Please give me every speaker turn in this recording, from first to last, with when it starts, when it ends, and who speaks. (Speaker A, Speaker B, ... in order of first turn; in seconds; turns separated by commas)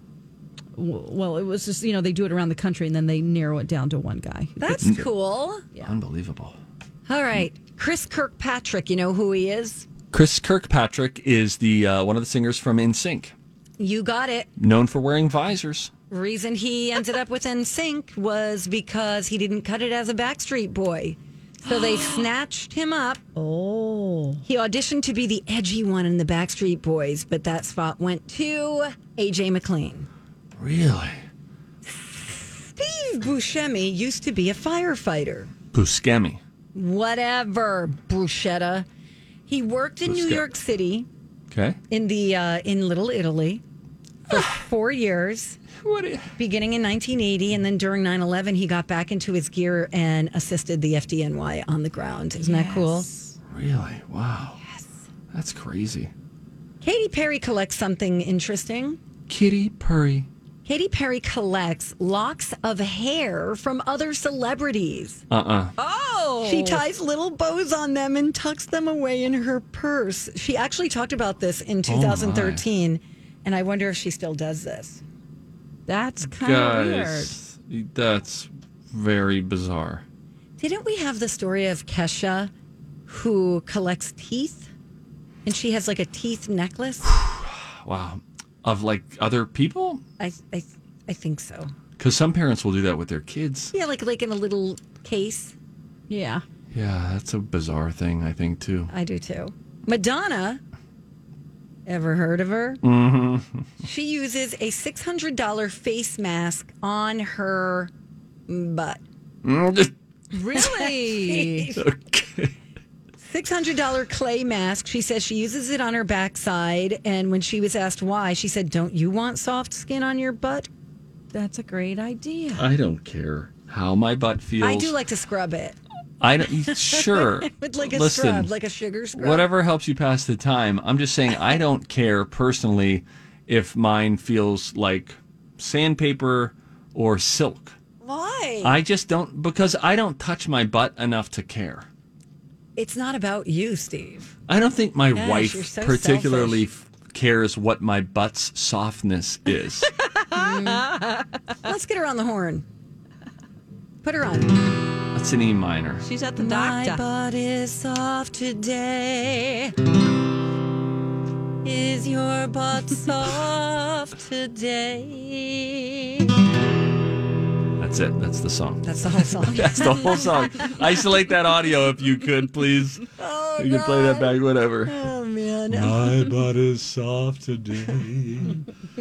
Speaker A: 0.8-4.9, Speaker B: 4.6-5.7, Speaker C: 5.8-6.6, Speaker B: 7.1-9.9, Speaker C: 10.1-13.3, Speaker B: 13.8-14.5, Speaker C: 14.6-15.9, Speaker B: 16.1-23.2, Speaker A: 21.6-22.3, Speaker A: 23.4-24.4, Speaker B: 24.4-30.1, Speaker C: 30.6-31.2, Speaker B: 31.8-35.5, Speaker C: 35.7-36.4, Speaker B: 36.7-38.9, Speaker B: 39.5-41.1, Speaker C: 40.0-40.4, Speaker C: 41.5-41.8, Speaker B: 41.9-43.6, Speaker B: 44.3-45.6, Speaker C: 45.8-46.3, Speaker B: 46.4-53.1, Speaker A: 52.4-53.4, Speaker C: 53.5-54.6, Speaker C: 55.3-56.1, Speaker B: 56.8-59.0, Speaker C: 59.3-60.3, Speaker B: 60.6-65.2, Speaker C: 65.3-65.7, Speaker A: 65.8-66.8, Speaker B: 66.4-75.0, Speaker C: 71.9-72.7, Speaker A: 75.9-77.3, Speaker C: 76.4-80.0, Speaker B: 80.6-82.5, Speaker B: 83.1-84.7, Speaker B: 85.5-87.1, Speaker C: 87.0-90.0, Speaker B: 90.2-91.7, Speaker C: 92.0-93.7, Speaker B: 93.7-95.5, Speaker A: 96.1-96.4, Speaker C: 96.7-98.9, Speaker B: 98.9-100.6, Speaker B: 101.9-102.8, Speaker C: 102.8-103.6, Speaker B: 103.8-107.9, Speaker B: 108.5-109.0, Speaker C: 109.4-109.9, Speaker A: 110.3-111.8, Speaker B: 110.3-111.8, Speaker C: 111.8-112.6, Speaker B: 113.2-120.7, Speaker A: 121.3-122.7, Speaker C: 122.6-125.0, Speaker B: 124.6-125.8, Speaker C: 126.2-128.5, Speaker B: 126.7-129.5, Speaker C: 129.1-137.8, Speaker B: 138.0-138.8, Speaker C: 138.6-141.9, Speaker B: 142.8-144.3, Speaker C: 144.5-149.9, Speaker B: 145.1-146.6, Speaker A: 150.1-151.2, Speaker B: 150.3-150.9, Speaker B: 151.6-152.7, Speaker B: 154.0-154.8, Speaker C: 155.1-156.1, Speaker A: 156.0-157.0, Speaker B: 156.4-159.7, Speaker B: 161.6-166.3, Speaker C: 167.8-175.0, Speaker B: 168.8-170.3, Speaker B: 173.2-176.1, Speaker C: 175.7-178.6